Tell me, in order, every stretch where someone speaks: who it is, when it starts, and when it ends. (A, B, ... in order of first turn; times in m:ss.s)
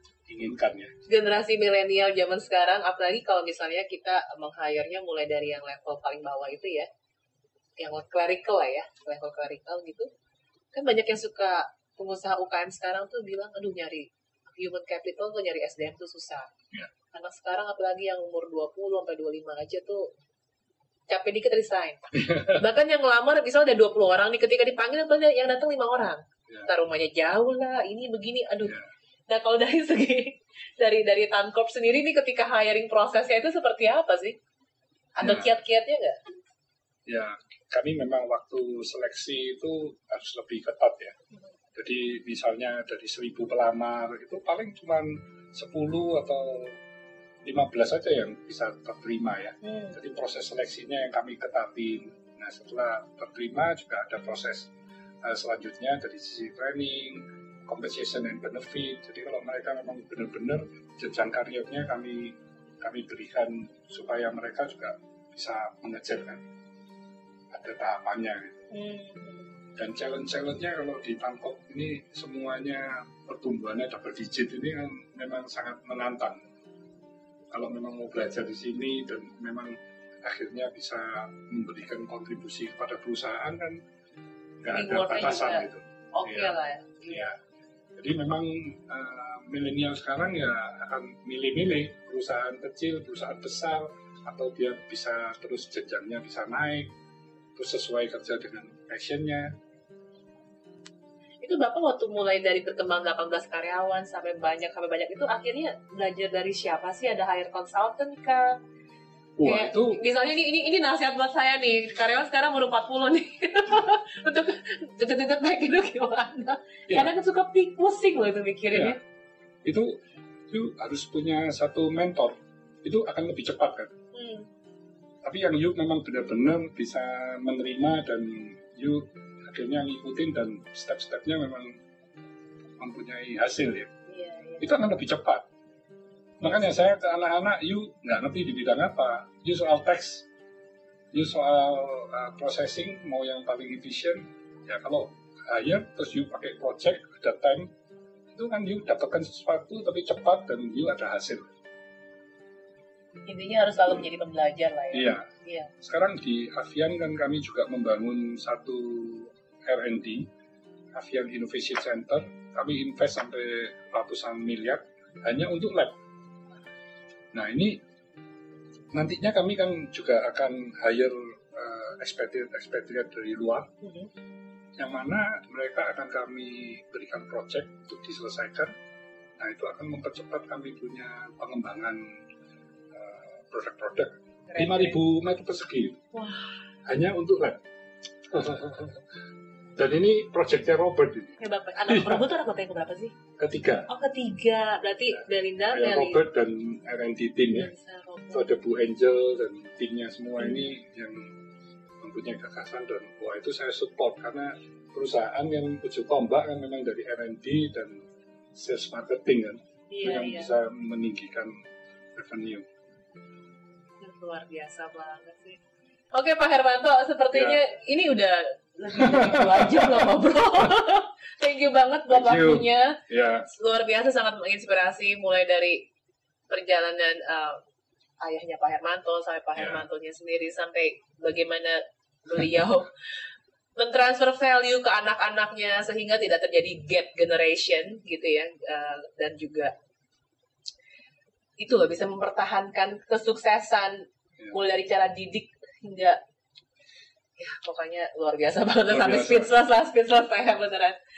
0:00.3-0:00.9 A
0:01.1-0:06.9 B
0:07.8-0:10.1 B
0:10.7-0:16.5 B
0:17.1-0:20.1 B
0:21.1-0:28.8 B
0:22.2-0:22.6 A
0:29.3-0:34.4 B
0:35.2-0:36.2 B
0:35.2-0:35.5 A
0:37.1-0:41.2 A
0:41.8-0:46.8 A
0:47.4-0:54.7 A
0:49.6-0:50.0 B
0:55.2-1:06.4 A
1:07.5-1:08.6 A
1:08.7-1:09.5 B
1:09.8-1:16.4 A
1:17.5-1:23.8 A
1:24.6-1:26.6 A
1:24.7-1:27.3 B
1:27.1-1:27.4 A
1:28.0-1:36.9 A
1:37.6-1:39.5 A
1:41.4-1:48.6 B
1:49.4-1:50.0 A
1:49.4-1:59.0 B
1:59.6-2:00.0 A
2:00.5-2:03.9 A
2:04.1-2:04.5 B
2:05.2-2:11.8 A
2:12.8-2:13.9 A
2:14.1-2:14.7 B
2:14.6-2:15.4 A
2:16.4-2:20.3 A
2:21.1-2:27.7 A
2:28.3-2:31.5 A
2:33.3-2:35.7 B
2:34.9-2:35.3 A
2:35.8-2:40.3 A
2:40.9-2:46.0 A
2:47.3-2:47.8 A
2:48.9-2:53.7 A
2:53.8-2:54.1 B
2:54.8-2:58.7 A
2:59.4-3:02.1 A
3:02.9-3:06.0 A
3:04.5-3:05.0 B
3:06.1-3:06.6 B
3:06.9-3:07.6 A
3:08.3-3:09.0 A
3:09.8-3:12.2 A
3:11.4-3:13.1 B
3:13.4-3:13.9 A
3:13.9-3:16.2 B
3:15.7-3:17.7 A
3:17.5-3:18.5 B
3:18.3-3:21.3 A
3:20.4-3:20.7 B
3:22.0-3:28.0 A
3:28.6-3:31.5 A
3:29.9-3:30.5 B
3:32.2-3:32.7 A
3:34.0-3:35.6 B
3:36.1-3:45.9 B
3:37.3-3:37.6 A
3:39.0-3:39.9 A
3:42.1-3:43.5 A
3:46.5-3:47.6 B
3:48.2-3:52.9 B
3:49.6-3:49.8 A
3:53.8-3:59.7 B
4:01.6-4:06.2 B
4:07.4-4:11.0 B
4:08.9-4:09.5 A